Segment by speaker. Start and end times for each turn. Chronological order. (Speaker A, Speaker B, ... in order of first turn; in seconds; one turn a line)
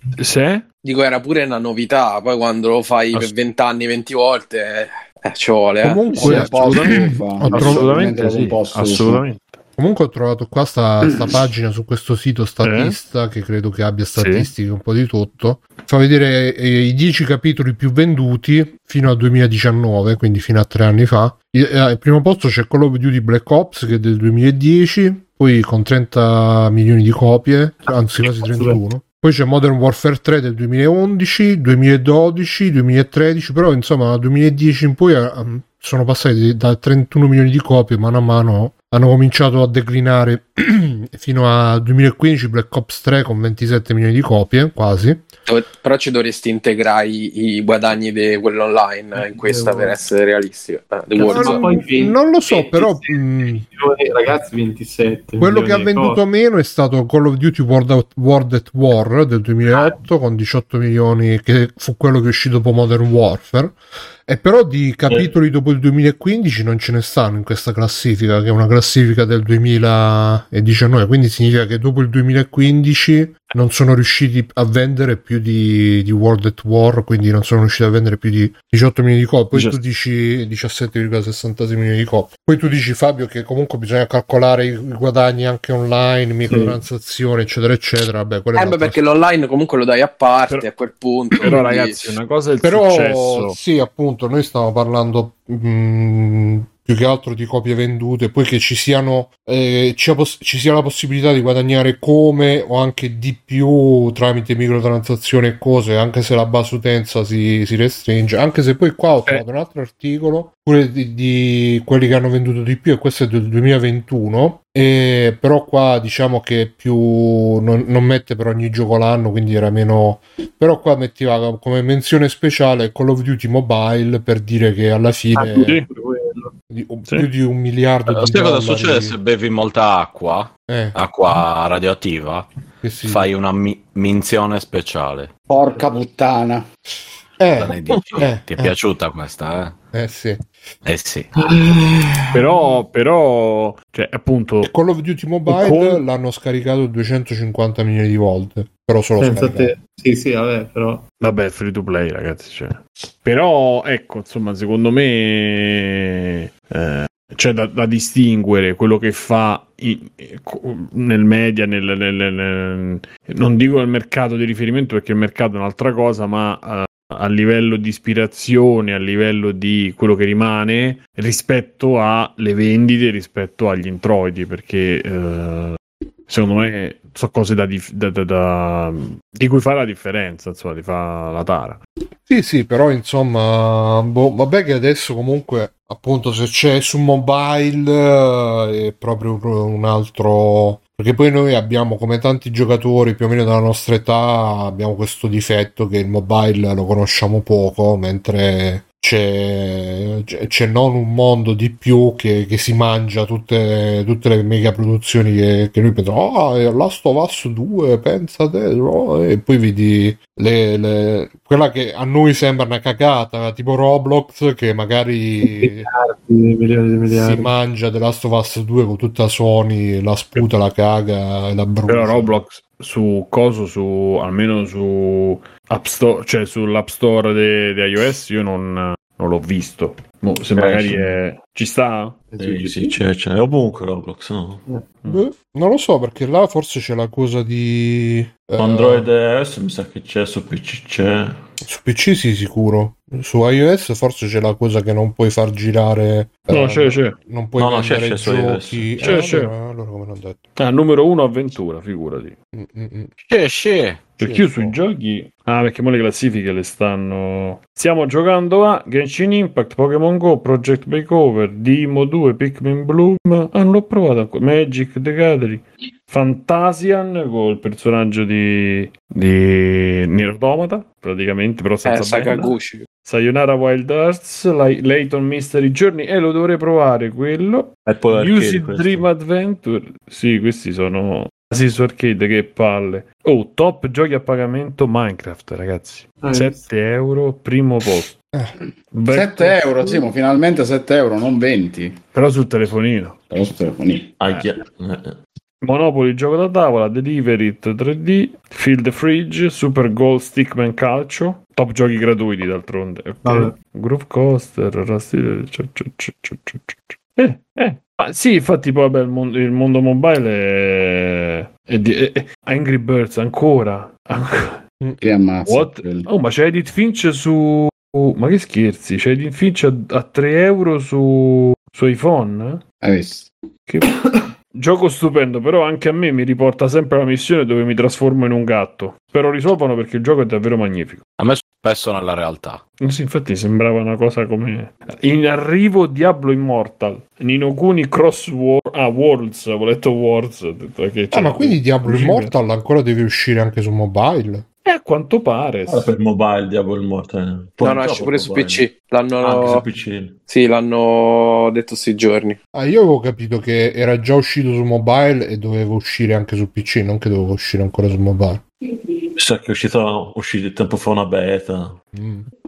Speaker A: 0.2-0.7
Speaker B: 0.8-6.1
Speaker C: 5.8-8.1
Speaker D: 6.1-9.2
Speaker A: 6.2-9.6
Speaker C: 9.8-45.3
Speaker A: 12.6-12.9
Speaker A: 14.2-14.5
Speaker E: 28.3-28.8
Speaker B: 45.5-51.8
Speaker E: 49.1-50.0
Speaker E: 51.1-56.2
Speaker C: 51.3-53.6
Speaker C: 55.4-89.0
Speaker E: 59.7-60.0
Speaker A: 79.5-79.8
Speaker E: 86.5-86.8
Speaker B: 88.5-92.2
Speaker A: 91.4-93.6
Speaker C: 92.6-125.8
Speaker E: 125.4-126.5
Speaker C: 126.7-129.2
Speaker F: 128.1-132.5
Speaker C: 130.7-131.0
Speaker C: 132.8-133.3
Speaker F: 133.0-135.3
Speaker D: 135.5-136.7
Speaker C: 137.4-138.8
Speaker F: 137.6-139.8
Speaker C: 139.9-140.5
Speaker F: 140.8-141.3
Speaker E: 141.4-142.7
Speaker A: 142.3-144.7
Speaker C: 144.6-149.7
Speaker A: 145.5-146.0
Speaker E: 149.2-151.0
Speaker A: 151.2-181.8
Speaker C: 182.2-215.9
Speaker E: 215.4-217.5
Speaker C: 217.1-222.4
Speaker A: 221.9-232.2
Speaker G: 230.5-231.2
Speaker E: 232.3-233.0
Speaker G: 232.4-234.6
Speaker C: 235.1-239.1
Speaker G: 238.6-241.4
Speaker C: 241.7-250.4
Speaker A: 246.5-247.2
Speaker G: 247.6-249.2
Speaker A: 249.0-249.5
Speaker A: 250.6-252.3
Speaker C: 252.5-253.1
Speaker F: 253.2-254.1
Speaker A: 254.2-288.2
Speaker C: 254.2-254.8
Speaker B: 271.9-272.9
Speaker G: 277.9-279.1
Speaker E: 286.2-286.6
Speaker A: 288.9-290.0
Speaker D: 289.1-292.0
Speaker A: 292.1-293.2
Speaker D: 293.3-294.1
Speaker G: 294.2-295.2
Speaker A: 295.6-314.6
Speaker E: 303.2-303.6
Speaker C: 314.8-315.1
Speaker D: 315.0-316.1
Speaker A: 315.5-322.6
Speaker D: 322.8-323.3
Speaker A: 324.6-331.0
Speaker F: 331.2-332.6
Speaker A: 332.8-342.3
Speaker C: 341.1-344.5
Speaker A: 344.7-345.9
Speaker G: 345.7-350.2
Speaker B: 347.6-349.7
Speaker B: 350.3-352.4
Speaker C: 352.5-358.4
Speaker G: 359.2-361.8
Speaker C: 361.9-362.3